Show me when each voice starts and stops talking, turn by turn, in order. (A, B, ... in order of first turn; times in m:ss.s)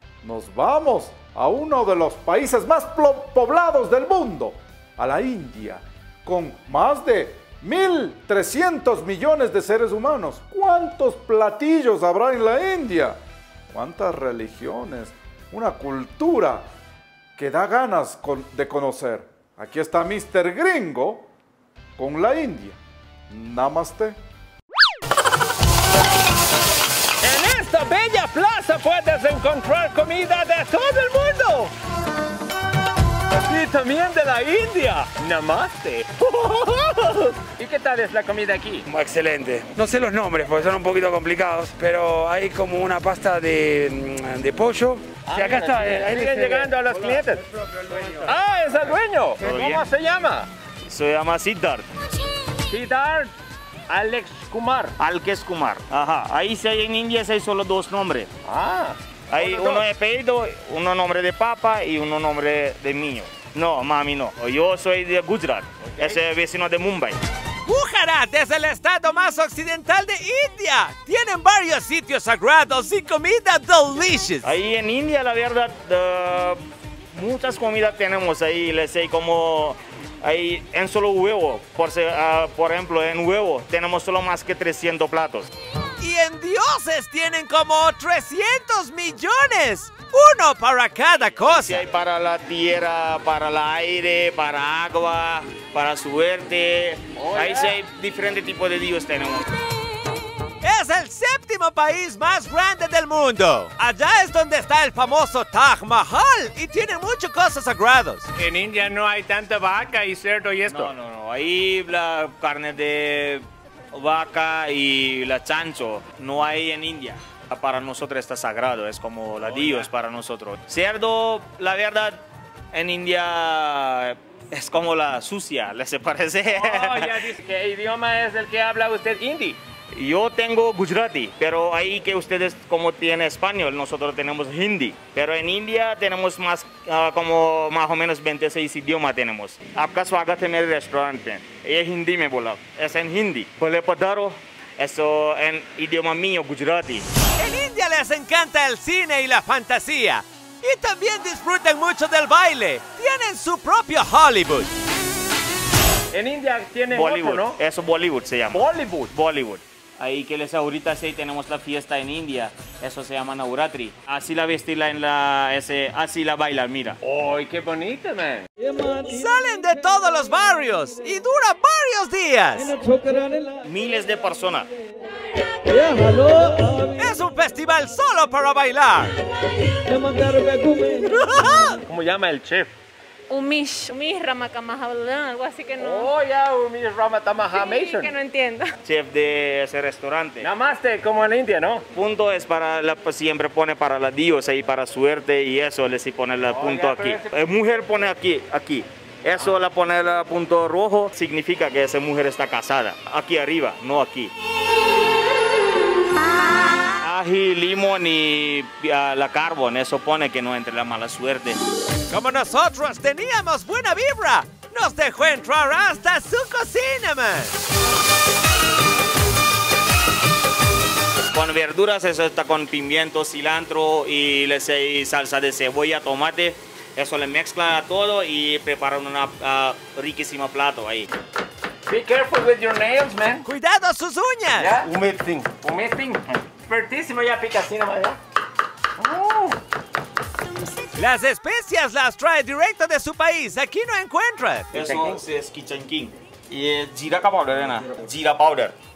0:00.2-0:13.2 A
0:13.7-0:16.6 A
0:17.4-0:21.3 A
0:22.0-0:22.8 A
0:23.3-0:24.2 A
0:27.2-0:31.7 B
0:33.5-0:38.9 B
0:38.9-0:46.7 C
0:45.3-0:47.4 B
0:48.2-0:50.5 B
0:49.4-0:49.8 D
0:50.8-0:51.9 D
0:52.7-0:53.3 B
0:53.9-0:55.0 B
0:55.0-0:58.3 D
0:58.4-0:59.8 B
0:59.3-1:07.2 D
1:05.8-1:06.2 B
1:07.7-1:14.6 E
1:14.4-1:25.5 D
1:26.0-1:31.9 E
1:31.4-1:39.5 D
1:37.2-1:37.8 B
1:40.6-1:48.3 E
1:48.4-1:50.9 B
1:50.7-2:07.3 D
2:06.5-2:09.6 B
2:09.9-2:27.1 D
2:27.4-2:34.7 E
2:36.1-2:37.6 B
2:36.9-2:47.0 D
2:38.5-2:39.1 B
2:47.0-2:48.5 B
2:49.0-2:53.2 E
2:53.6-2:54.7 D
2:56.3-2:59.2 E
3:00.2-3:01.8 E
3:01.9-3:02.7 B
3:03.3-3:06.1 F
3:05.8-3:08.1 B
3:07.5-3:08.7 F
3:08.8-3:10.5 D
3:10.4-3:11.8 B
3:11.9-3:24.3 D
3:16.5-3:17.4 B
3:27.0-3:31.6 D
3:32.1-3:37.6 E
3:41.3-3:51.1 D
3:51.9-3:53.5 B
3:53.4-3:54.8 E
3:54.6-3:58.2 B
3:59.0-3:59.6 B
4:00.9-4:04.7 E
4:04.7-4:08.8 D
4:04.7-4:05.2 B